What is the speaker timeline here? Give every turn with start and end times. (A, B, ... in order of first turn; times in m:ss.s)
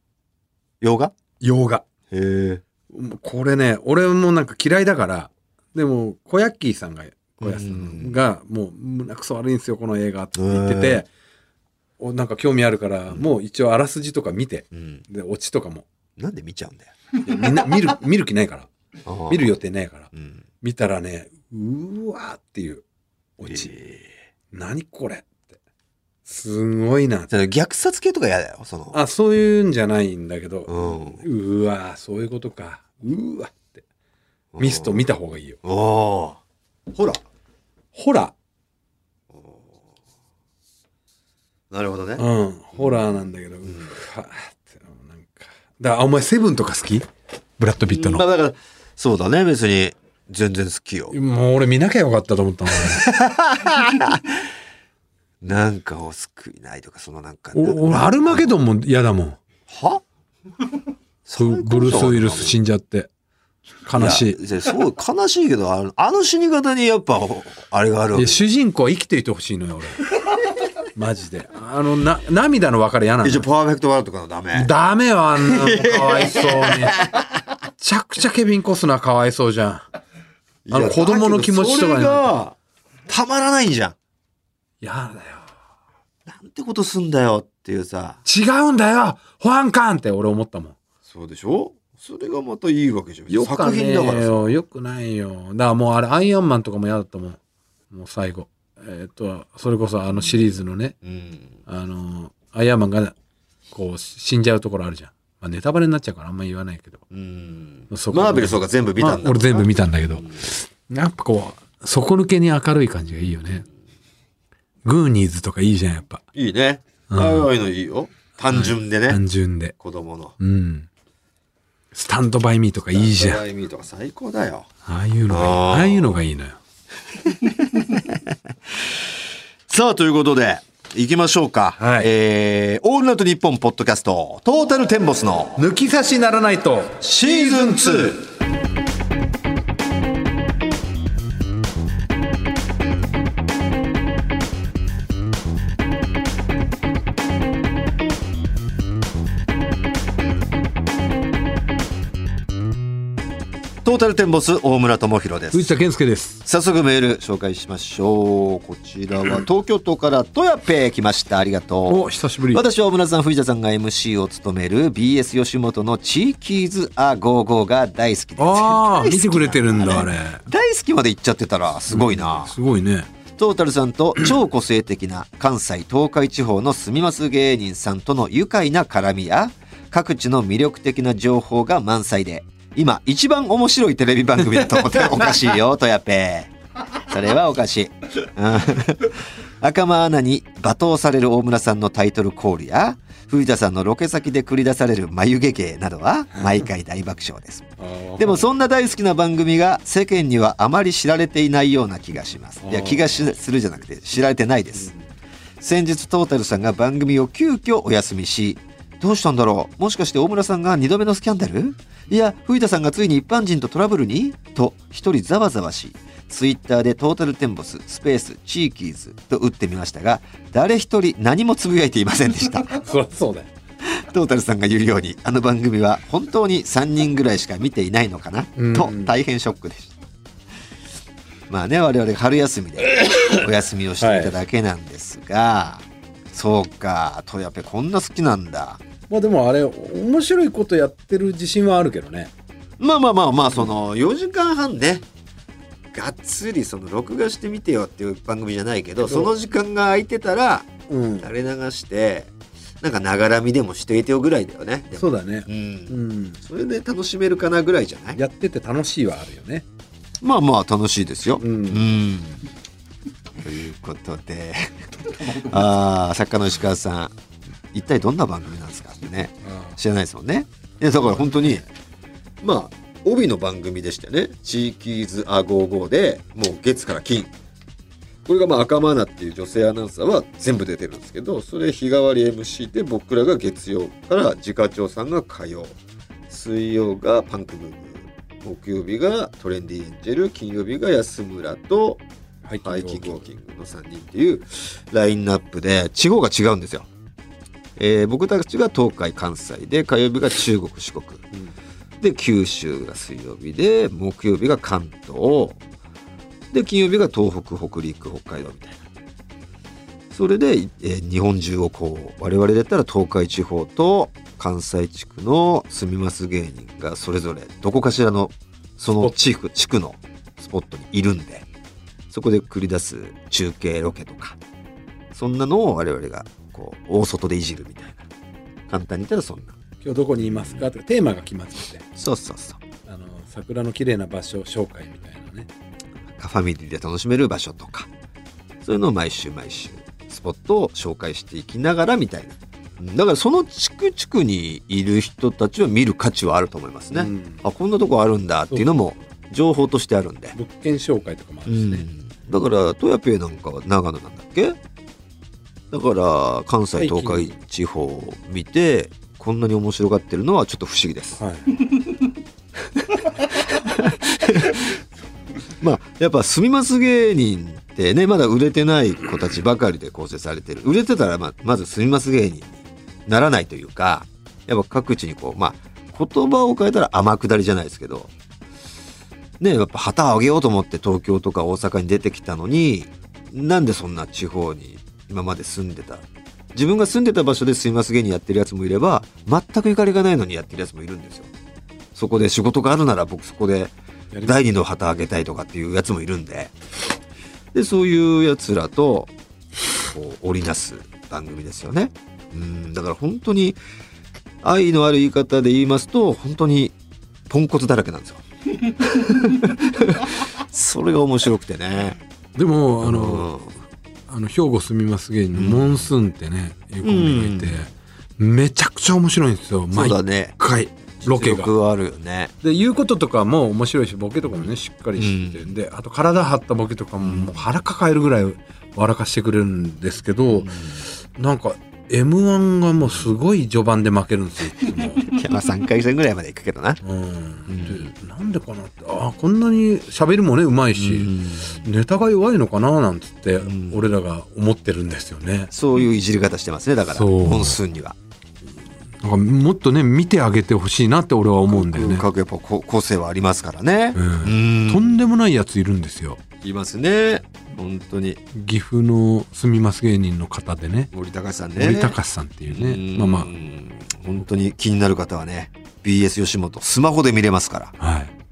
0:00.8-0:01.2 A
0:01.4-0:01.8 B
0:02.1-0:02.6 A
0:02.9-0:11.1 B
0:07.4-0:08.2 A
0:10.4-0:11.0 A
0:12.0-0:15.9 B
0:14.7-0:15.0 A
0:16.2-0:16.9 A
0:17.2-0:18.7 B
0:19.0-0:19.5 A
0:19.3-0:22.8 B
0:20.1-0:20.4 A
0:23.4-0:23.8 B
0:23.5-0:24.1 A
0:24.5-0:25.6 B
0:26.3-0:27.3 B
0:27.3-0:29.0 A
0:28.9-0:33.8 B
0:30.7-0:31.2 A
0:34.5-0:35.0 A
0:34.6-0:35.6 B
0:35.6-0:36.4 A
0:36.9-0:37.2 A
0:37.9-0:38.3 B
0:39.3-0:39.8 A
0:41.7-0:42.2 A
0:42.2-0:47.1 B
0:47.6-0:48.2 B
0:47.8-0:51.2 A
0:51.1-0:53.1 B
0:53.0-0:54.2 A
0:55.4-0:58.5 A
0:57.5-0:59.4 B
0:59.7-1:00.0 A
1:01.3-1:02.6 A
1:01.4-1:03.1 B
1:03.9-1:04.4 B
1:04.0-1:08.4 A
1:08.1-1:10.0 B
1:11.0-1:13.5 B
1:13.2-1:14.7 A
1:14.5-1:17.1 B
1:15.5-1:17.2 A
1:17.8-1:19.9 B
1:20.7-1:22.6 A
1:20.7-1:22.4 B
1:23.1-1:24.0 A
1:24.8-1:25.5 B
1:26.3-1:28.2 A
1:28.3-1:30.8 B
1:31.1-1:34.5 A
1:33.3-1:37.4 B
1:37.9-1:41.0 B
1:41.0-1:41.6 A
1:41.7-1:43.2 B
1:43.7-1:47.0 B
1:47.1-1:49.8 A
1:47.9-1:53.6 B
1:54.8-1:56.2 B
1:56.4-1:59.2 A
1:57.1-1:57.5 B
1:58.5-1:59.7 B
1:59.8-2:00.4 A
2:00.4-2:00.9 B
2:01.9-2:03.4 B
2:02.9-2:04.7 A
2:04.8-2:06.6 B
2:05.3-2:06.2 A
2:09.7-2:15.6 A
2:11.8-2:12.1 B
2:15.6-2:18.2 B
2:17.0-2:18.2 A
2:33.8-2:35.8 A
2:35.5-2:36.4 B
2:36.4-2:52.6 A
2:41.9-2:42.6 B
2:48.4-2:50.4 B
2:51.9-2:53.1 B
2:53.4-3:06.5 A
3:07.0-3:24.9 A
3:16.4-3:16.6 B
3:17.8-3:18.5 B
3:22.6-3:23.4 B
3:24.8-3:25.0 B
3:25.6-3:42.8 A
3:42.8-3:43.5 B
3:43.9-3:49.9 A
3:48.6-3:49.1 B
3:51.5-3:58.8 A
3:54.0-3:54.4 B
3:59.1-4:02.3 B
4:02.8-4:05.1 A
4:05.9-4:10.7 A
4:09.0-4:09.3 B
4:10.9-4:11.3 B
4:11.2-4:18.2 A
4:15.0-4:16.4 B
4:18.2-4:19.6 B
4:20.2-4:22.4 A
4:21.4-4:21.9 B
4:23.4-4:27.1 A
4:27.7-4:31.6 A
4:29.4-4:29.8 B
4:31.1-4:31.6 B
4:32.4-4:37.3 A
4:38.3-4:45.8 A
4:46.3-4:52.0 A
4:52.4-4:53.3 B
4:52.6-4:56.9 A
4:57.8-5:01.2 A
5:02.0-5:05.6 A
5:06.5-5:08.8 A
5:10.1-5:21.5 A
5:22.1-5:24.4 A
5:25.1-5:28.0 A
5:28.7-5:29.6 A
5:29.8-5:31.8 B
5:30.2-5:30.7 A
5:32.0-5:32.6 A
5:32.8-5:35.5 B
5:36.2-5:37.9 A
5:38.6-5:50.4 A
5:46.9-5:47.4 B
5:50.4-5:51.9 B
5:51.5-5:54.6 A
5:55.7-6:01.2 A
5:56.8-5:57.3 B
6:01.2-6:01.6 B
6:02.8-6:03.0 A
6:03.6-6:04.7 A
6:05.6-6:18.1 A
6:19.4-6:26.0 A
6:26.6-6:31.3 A
6:32.0-6:36.5 A
6:34.1-6:34.4 B
6:37.5-6:39.1 A
6:39.8-6:43.6 A
6:44.4-6:46.8 A
6:47.3-6:48.2 A
6:48.8-6:52.0 A
6:52.4-6:53.3 B
6:52.8-6:53.6 A
6:54.1-7:01.5 B
6:55.3-6:55.9 A
6:56.8-6:57.7 A
6:59.7-7:00.4 A
7:01.0-7:02.3 A
7:02.4-7:10.6 B
7:05.0-7:05.5 A
7:07.0-7:07.4 A
7:10.4-7:10.8 A
7:11.2-7:15.1 B
7:15.0-7:16.8 A
7:16.8-7:25.5 B
7:17.5-7:17.9 A
7:20.8-7:21.6 A
7:23.4-7:23.8 A
7:25.5-7:28.0 A
7:26.9-7:27.6 B
7:29.0-7:32.0 B
7:31.5-7:35.0 A
7:34.0-7:36.2 B
7:36.4-7:38.2 A
7:38.3-7:40.9 B
7:40.9-7:42.0 A
7:41.6-7:43.3 B
7:42.5-7:47.8 A
7:47.8-7:48.1 B